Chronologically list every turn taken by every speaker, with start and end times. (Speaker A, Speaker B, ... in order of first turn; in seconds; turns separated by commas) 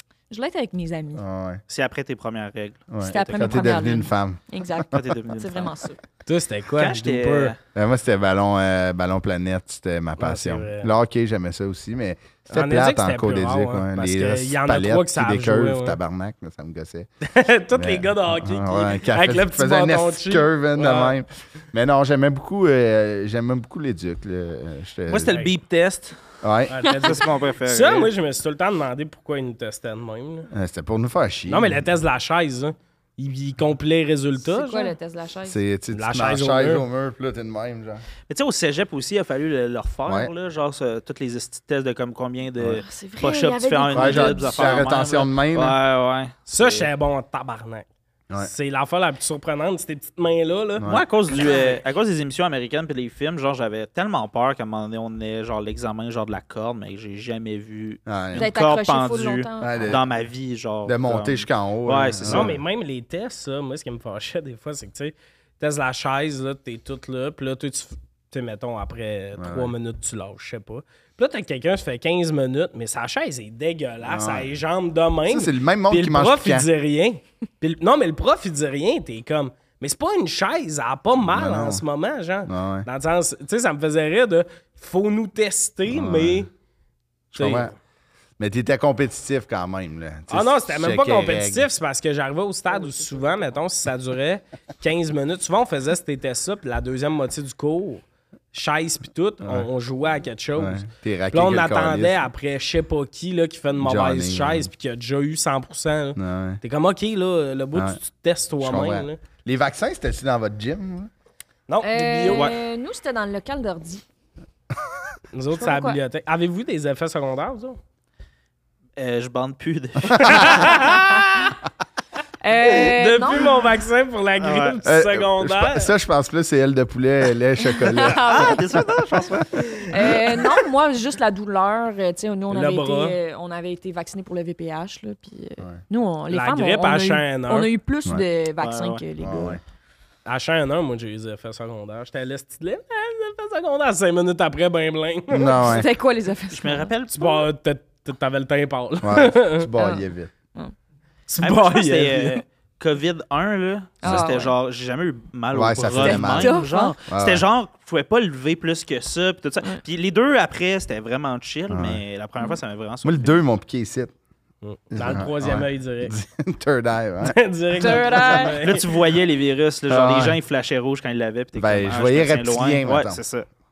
Speaker A: 0.3-1.2, Speaker B: 1.1-1.6, Speaker C: 1.7-2.9, Speaker B: 2.9-4.4, Speaker A: 3.0-6.0, Speaker C: 4.9-5.7, Speaker D: 6.3-7.5, Speaker C: 6.8-7.6, Speaker B: 7.7-17.1, Speaker D: 10.2-10.9, Speaker D: 12.5-16.0, Speaker D: 17.2-21.1, Speaker B: 17.7-25.4, Speaker C: 25.1-26.2, Speaker B: 26.4-26.7, Speaker D: 26.7-30.5, Speaker C: 26.9-28.1, Speaker B: 30.5-31.8, Speaker D: 31.5-34.9, Speaker A: 34.4-35.6, Speaker B: 35.5-38.0, Speaker D: 35.9-36.8, Speaker C: 38.3-46.9, Speaker A: 42.6-44.8, Speaker B: 43.9-45.8, Speaker D: 46.5-50.9, Speaker B: 50.8-51.0, Speaker C: 50.9-62.5, Speaker A: 51.3-51.8, Speaker B: 58.0-58.5, Speaker A: 58.3-60.0, Speaker B: 59.6-60.0, Speaker B: 60.9-62.6, Speaker D: 62.2-86.5, Speaker B: 69.4-69.7, Speaker B: 74.0-74.5, Speaker B: 75.3-76.7, Speaker B: 81.2-81.8, Speaker B: 82.5-82.9, Speaker B: 85.9-86.5, Speaker B: 87.3-87.7, Speaker D: 87.3-87.7, Speaker B: 88.4-91.7, Speaker D: 90.3-109.2, Speaker B: 99.4-99.7, Speaker B: 100.6-102.3, Speaker B: 103.8-104.7, Speaker B: 106.2-106.6, Speaker B: 108.6-111.1, Speaker D: 111.7-112.5, Speaker A: 111.8-114.0, Speaker D: 115.3-117.8, Speaker A: 115.5-116.0, Speaker C: 119.0-121.1, Speaker B: 120.2-120.5, Speaker D: 120.3-121.5, Speaker A: 122.4-123.6, Speaker D: 122.6-125.9, Speaker C: 124.4-124.8, Speaker B: 124.8-129.4, Speaker A: 127.7-128.6, Speaker C: 128.2-130.1, Speaker A: 129.8-139.6, Speaker D: 132.5-133.2, Speaker D: 136.3-137.7, Speaker C: 138.6-139.0, Speaker B: 139.2-139.6, Speaker D: 140.3-145.7, Speaker B: 145.3-145.9, Speaker A: 145.5-146.9, Speaker C: 146.5-147.5, Speaker D: 147.1-149.7, Speaker B: 149.0-150.3, Speaker A: 149.8-150.7, Speaker D: 151.3-152.4, Speaker C: 151.4-163.4, Speaker A: 154.0-154.6, Speaker B: 154.0-154.3, Speaker B: 155.5-157.4, Speaker A: 155.9-156.9, Speaker B: 161.7-162.0, Speaker B: 163.0-164.1, Speaker D: 164.6-166.1, Speaker B: 164.9-167.4, Speaker D: 167.2-168.9, Speaker A: 167.8-168.6, Speaker C: 168.1-173.5, Speaker B: 169.9-170.4, Speaker B: 171.6-173.2